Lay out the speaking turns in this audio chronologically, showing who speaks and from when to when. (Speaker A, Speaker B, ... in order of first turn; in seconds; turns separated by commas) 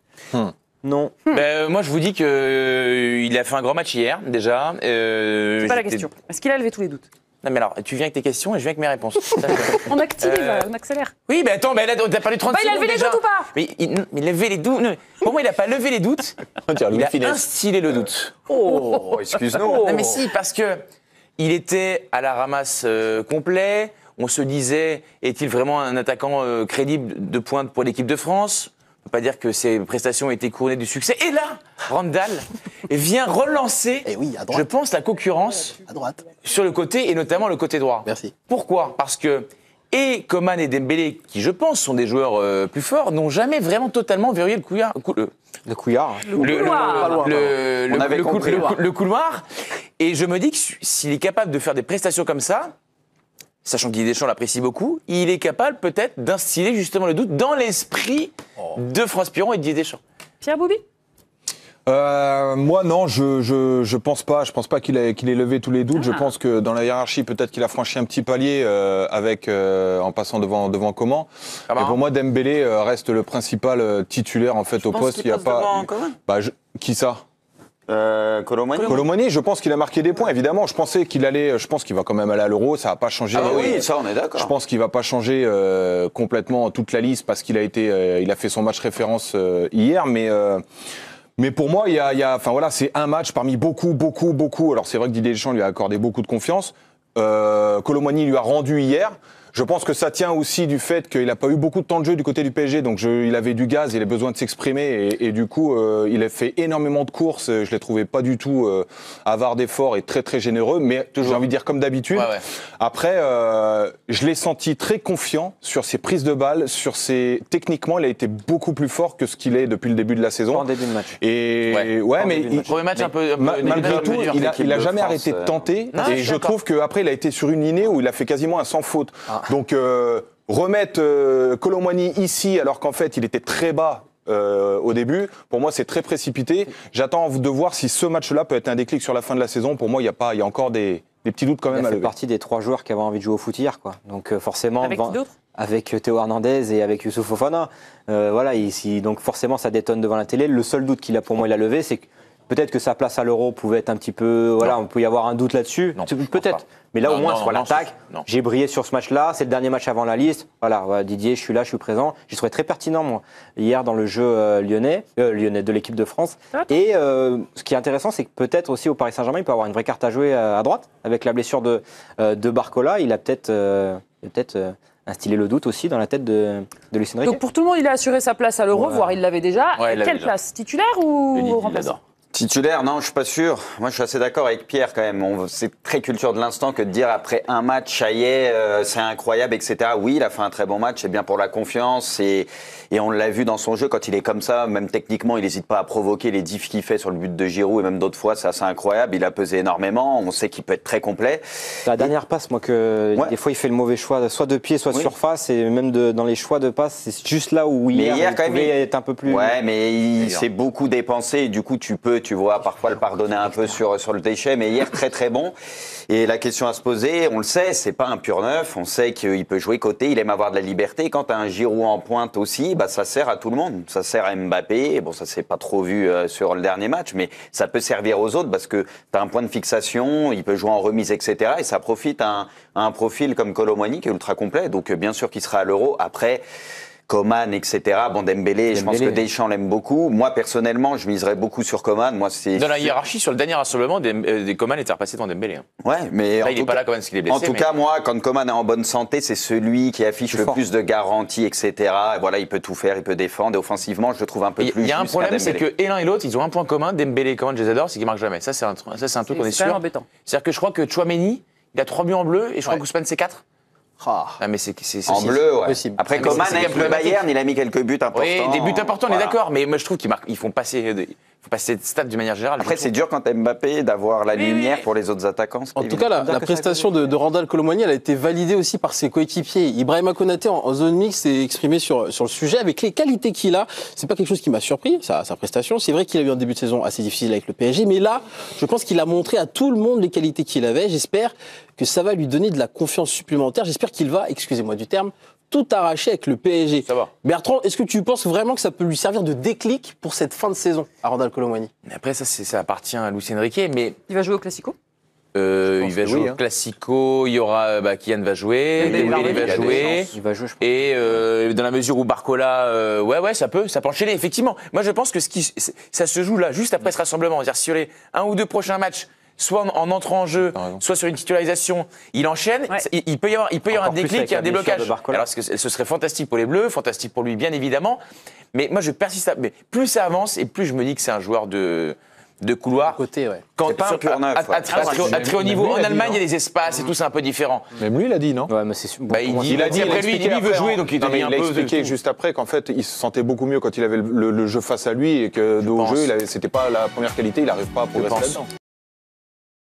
Speaker A: 0.8-1.1, Speaker B: 1.3-6.1, Speaker C: 5.6-7.0, Speaker B: 7.4-10.7, Speaker C: 9.3-11.2, Speaker B: 11.3-18.6, Speaker C: 12.5-13.5, Speaker D: 16.7-17.4, Speaker E: 18.7-20.2, Speaker C: 18.7-19.9, Speaker B: 19.7-20.8, Speaker B: 21.4-35.8, Speaker F: 34.0-34.6, Speaker F: 35.8-36.2, Speaker B: 36.4-45.3, Speaker F: 38.0-38.3, Speaker A: 45.6-46.4, Speaker C: 46.3-47.2, Speaker B: 46.4-49.4, Speaker F: 46.4-47.5, Speaker E: 47.9-48.8, Speaker B: 50.0-52.7, Speaker B: 53.6-60.0, Speaker C: 60.4-60.8, Speaker D: 61.9-77.2, Speaker B: 71.7-72.0, Speaker B: 74.8-75.3, Speaker E: 75.3-76.1, Speaker E: 77.9-79.0, Speaker B: 78.8-79.0, Speaker D: 78.8-90.6, Speaker E: 83.3-84.5, Speaker D: 91.4-142.1, Speaker B: 112.1-112.4, Speaker A: 120.5-121.1, Speaker A: 122.2-122.7, Speaker B: 122.6-124.4, Speaker E: 123.6-125.7, Speaker B: 125.9-126.5, Speaker A: 141.7-177.4, Speaker C: 144.8-145.3, Speaker B: 155.9-158.2, Speaker C: 177.2-182.0, Speaker A: 178.7-179.1, Speaker B: 179.7-180.3, Speaker B: 181.3-181.9, Speaker E: 182.3-202.1, Speaker A: 201.8-209.5, Speaker E: 207.9-215.6, Speaker E: 216.1-236.4, Speaker E: 237.1-243.0, Speaker A: 238.7-239.2, Speaker B: 242.5-245.7, Speaker E: 245.8-255.7, Speaker B: 246.4-247.7, Speaker A: 250.3-250.6, Speaker B: 254.6-263.4, Speaker C: 259.2-260.1, Speaker F: 264.0-264.4, Speaker B: 264.4-265.5, Speaker E: 265.1-269.4, Speaker F: 265.6-266.9, Speaker B: 266.1-267.2, Speaker B: 268.1-272.9, Speaker E: 272.6-276.0, Speaker B: 274.3-274.9, Speaker F: 275.8-301.7, Speaker A: 275.8-277.2, Speaker B: 296.8-297.1, Speaker B: 301.8-304.0, Speaker C: 304.1-304.8, Speaker B: 305.3-328.0, Speaker D: 305.8-306.4, Speaker C: 308.8-309.6, Speaker E: 308.8-310.1, Speaker A: 309.0-311.2, Speaker D: 320.5-320.8, Speaker A: 323.7-325.3, Speaker B: 328.5-333.0, Speaker F: 332.8-333.4, Speaker B: 333.5-337.7, Speaker E: 333.6-335.3, Speaker D: 334.7-336.2, Speaker D: 337.8-338.5, Speaker A: 338.5-339.9, Speaker B: 339.1-341.9, Speaker D: 339.4-348.5, Speaker B: 345.6-346.1, Speaker B: 347.9-348.4